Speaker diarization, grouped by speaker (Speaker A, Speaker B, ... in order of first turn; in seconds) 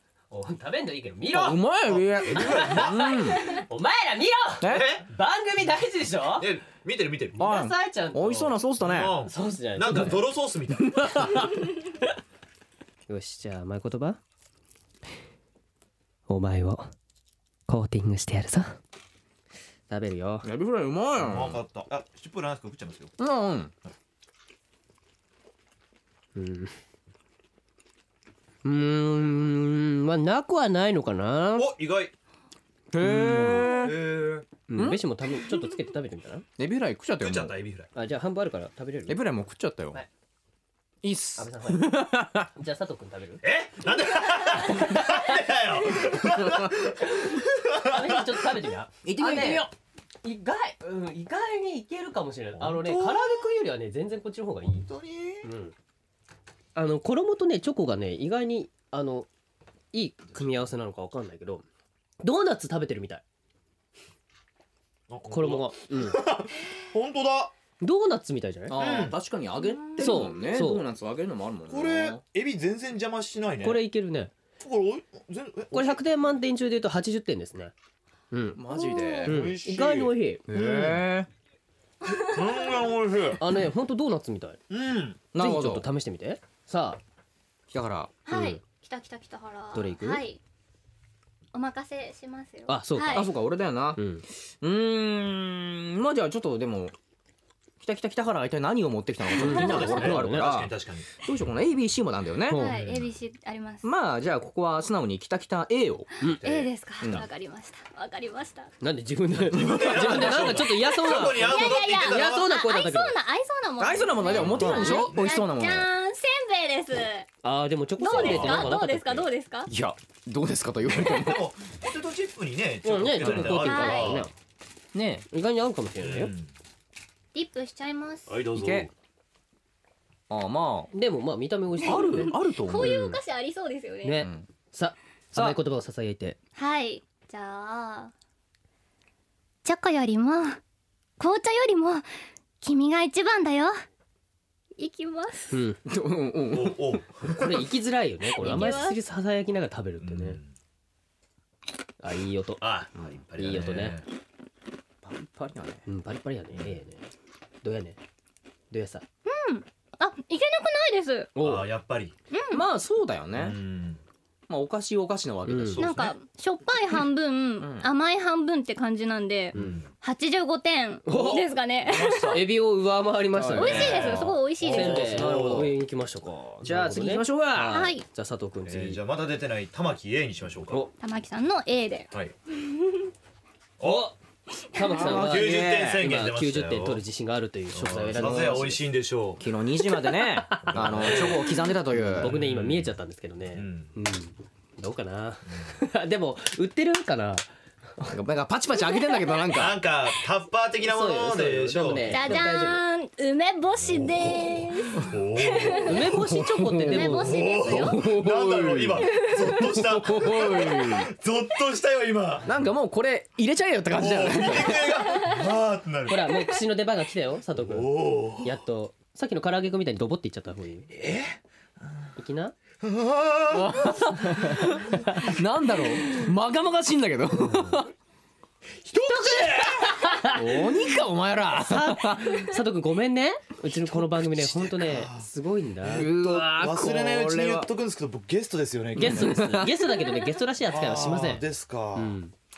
Speaker A: 0.3-1.6, 2.3-6.5, 7.3-8.6, 9.2-10.2, 13.1-14.2, 16.3-16.9, 17.7-18.8, 19.9-20.4, 26.3-26.7, 28.6-31.7, 33.1-33.7, 34.7-36.4, 37.9-39.2, 41.4-43.4, 44.9-45.2, 47.8-49.7, 50.2-54.9, 55.4-55.7, 56.7-59.3, 59.9-61.6, 62.2-63.2, 65.3-66.2, 67.8-68.8, 70.0-70.8, 73.6-74.3, 75.7-77.7, 78.3-78.6, 79.2-80.5, 83.4-84.6, 85.4-87.0, 88.3-88.6, 89.7-90.2, 92.7-93.3, 94.0-94.2, 99.4-100.5, 102.5-102.8, 108.8-113.1, 117.4-119.3, 122.8-124.3, 125.3-126.3, 130.9-133.2, 134.0-136.4, 145.5-145.8, 147.2-150.4, 152.0-152.6, 153.4-154.0, 155.8-157.1, 157.6-158.0, 158.7-159.0, 161.3-161.7, 165.5-165.8, 171.1-171.4, 172.3-179.0, 184.7-188.8, 190.1-191.3, 192.2-197.4, 200.8-202.8, 205.8-207.4, 216.1-220.9, 222.2-222.5, 224.4-225.3, 229.1-230.7, 231.6-236.1, 238.9-242.3
Speaker B: 1.3-3.4, 4.6-4.9, 7.3-9.2, 10.8-11.5, 20.4-21.6, 23.2-23.7, 32.9-34.0, 34.7-35.0, 36.6-37.5, 39.1-40.0, 41.0-42.5, 46.4-46.7, 49.0-49.7, 68.7-72.2, 78.5-79.6, 80.5-81.3, 85.3-85.8, 87.7-88.1, 93.1-94.0, 94.6-96.9, 97.8-102.6, 103.8-106.1, 107.0-107.3, 109.7-110.6, 113.8-115.9, 119.7-121.5, 123.2-123.5, 124.9-125.2, 128.5-128.9, 130.3-130.9, 131.8-133.0, 134.2-134.5, 135.3-135.6, 145.8-146.9, 155.0-155.8, 162.5-163.6, 164.5-166.1, 167.6-167.9, 173.3-175.7, 176.6-177.9, 184.8-186.1, 188.1-188.7, 189.4-192.3, 198.1-199.8, 206.1-211.1, 212.4-215.1, 223.5-227.9, 230.2-232.5, 235.9-237.7, 239.0-239.9
Speaker C: 1.9-3.2, 4.6-5.0, 6.4-7.4, 8.8-11.5, 21.2-23.1, 31.6-32.1, 33.0-34.5, 37.2-37.9, 43.4-48.5, 52.6-53.4, 54.9-55.5, 65.1-67.5, 68.8-69.2, 71.7-73.8, 74.6-76.0, 79.2-81.0, 82.2-83.4, 84.7-85.2, 99.4-101.1, 102.6-103.1, 106.3-106.7, 109.4-112.4, 114.3-115.3, 118.2-118.7, 120.9-124.3, 126.0-126.5, 128.3-128.9, 146.5-147.7, 150.0-150.5, 152.6-154.1, 161.4-162.1, 163.3-164.0, 165.8-166.1, 169.5-169.8, 171.8-172.4, 173.6-175.7, 178.7-180.9, 183.8-184.1, 185.0-187.0, 187.7-189.4, 190.6-192.9, 193.5-193.9, 199.6-202.4, 203.8-206.1, 207.1-212.5, 213.9-216.5, 217.6-218.6, 220.9-221.4, 222.8-225.1, 227.4-227.8, 228.8-230.2, 233.9-235.2, 235.8-239.6, 240.7-242.2
Speaker D: 69.6-70.1, 78.7-79.2, 82.1-82.7, 88.2-90.4, 91.5-93.3, 102.5-103.8, 106.3-108.7, 111.2-117.3, 118.0-119.7, 123.3-124.2, 127.3-128.3, 131.8-134.2, 136.6-138.1, 139.6-140.6, 141.2-142.0, 142.6-143.8, 144.8-145.6, 148.4-149.0, 159.2-161.3, 162.3-162.6, 165.8-172.4, 173.6-175.1, 177.7-178.0, 181.0-183.0, 202.1-205.9, 206.9-208.1